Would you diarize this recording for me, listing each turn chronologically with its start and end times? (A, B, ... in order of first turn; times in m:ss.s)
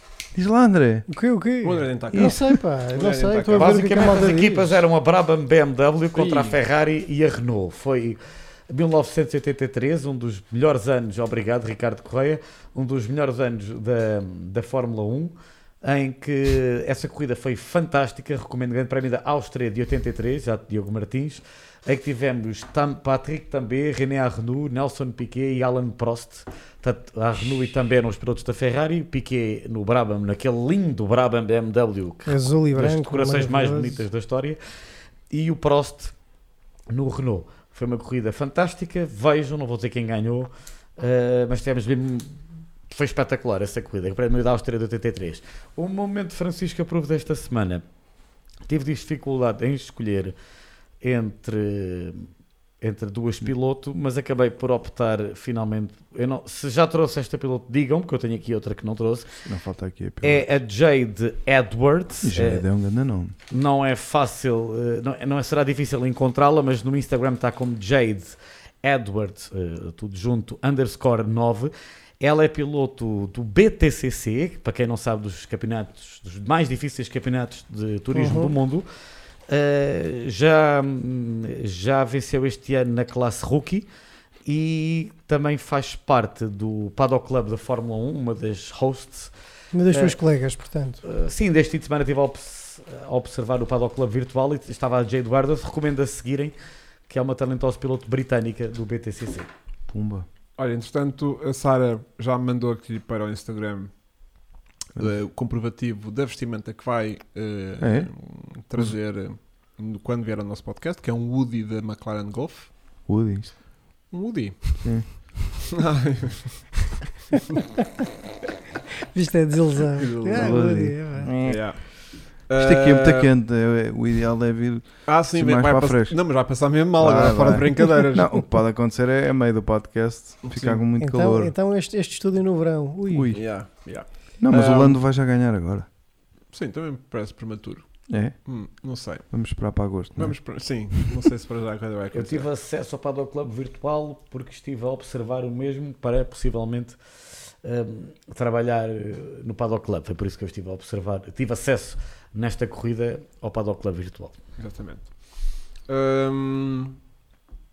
0:00.3-0:01.1 A
0:01.1-0:04.8 B
0:01.6-0:04.4 C
0:02.1-0:02.5 A
0:03.5-0:34.6 D
0:06.1-0:06.6 C
0:32.3-0:34.0 B
0:35.3-0:36.2 D
0:36.9-0:47.9 D
0:48.6-0:50.4 D
0:51.0-0:52.3 D
0:52.8-0:59.3 D
0:59.5-1:00.5 A
1:00.2-1:02.6 D
1:02.2-1:03.4 A
1:03.5-1:18.9 D
1:18.1-1:18.5 B
1:19.5-1:23.9 D
1:24.5-1:29.3 D
1:29.7-1:31.0 B
1:29.9-1:30.2 D
1:31.0-1:36.5 D
1:37.1-1:39.5 D
1:39.9-1:40.3 A
1:40.6-1:43.9 C
1:45.0-1:52.8 C
1:47.8-1:48.1 A
1:53.1-1:53.5 A
1:54.1-1:56.8 C
1:54.8-1:55.6 A
1:59.1-2:01.3 B
2:00.0-2:00.6 C
2:00.4-2:01.8 A
2:01.4-2:03.3 C
2:02.6-2:06.4 A
2:05.1-2:08.4 C
2:07.0-2:11.5 A
2:10.4-2:10.8 C
2:11.0-2:13.4 B
2:13.1-2:13.6 A
2:13.3-2:15.0 C
2:14.4-2:15.9 A
2:16.5-2:19.3 C
2:18.1-2:18.4 A
2:19.3-2:20.7 A
2:20.2-2:22.5 C
2:22.1-2:27.0 D
2:27.6-2:34.4 D
2:34.6-2:37.0 C